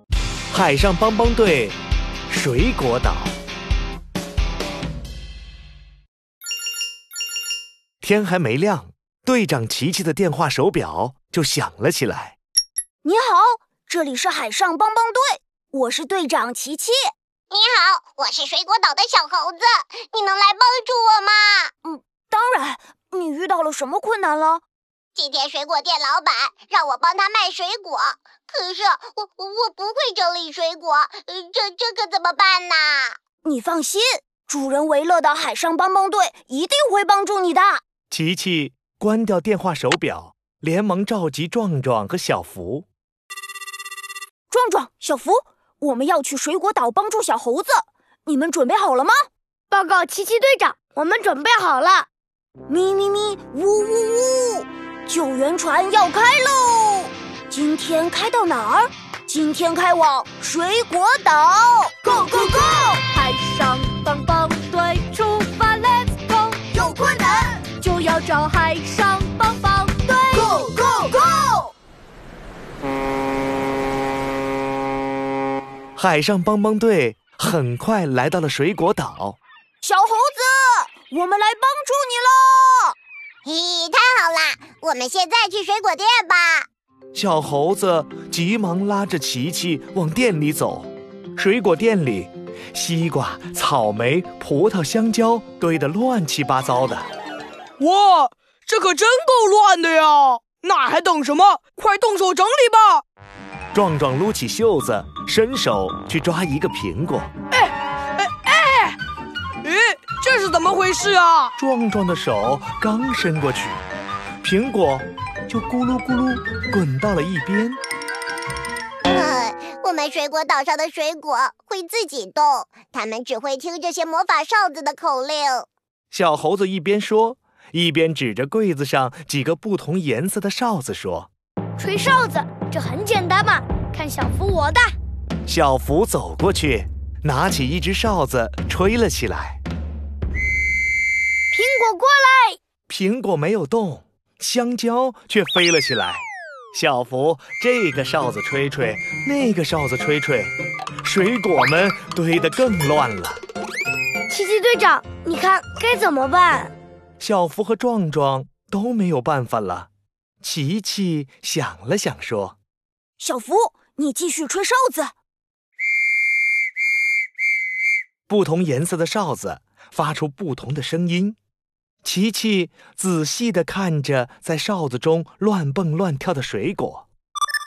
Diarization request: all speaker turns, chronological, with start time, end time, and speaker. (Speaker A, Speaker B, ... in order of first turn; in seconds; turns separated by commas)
Speaker A: 0.5-1.8, Speaker A: 2.3-3.3, Speaker A: 8.0-12.4, Speaker B: 13.0-17.0, Speaker C: 17.5-21.7, Speaker B: 21.8-24.6, Speaker C: 25.1-33.2, Speaker B: 33.4-37.8, Speaker A: 38.1-42.9, Speaker B: 44.5-49.2, Speaker D: 49.7-52.1, Speaker B: 52.7-63.0, Speaker D: 63.0-66.7, Speaker B: 66.7-67.6, Speaker D: 67.8-70.3, Speaker B: 70.2-71.7, Speaker A: 76.0-79.4, Speaker B: 79.8-83.0, Speaker C: 83.5-86.7, Speaker A: 87.1-97.1, Speaker E: 97.8-103.0, Speaker A: 103.7-107.3, Speaker E: 107.6-109.0, Speaker E: 109.6-111.5, Speaker A: 111.6-113.8, Speaker A: 114.4-117.8, Speaker C: 119.1-125.7, Speaker A: 126.1-131.3, Speaker D: 131.8-134.9, Speaker A: 135.4-139.6, Speaker D: 141.5-142.6, Speaker A: 142.9-153.4, Speaker D: 154.3-156.7, Speaker A: 157.2-159.9, Speaker A: 160.4-162.6, Speaker B: 163.2-165.1, Speaker A: 168.3-171.4, Speaker A: 172.0-177.1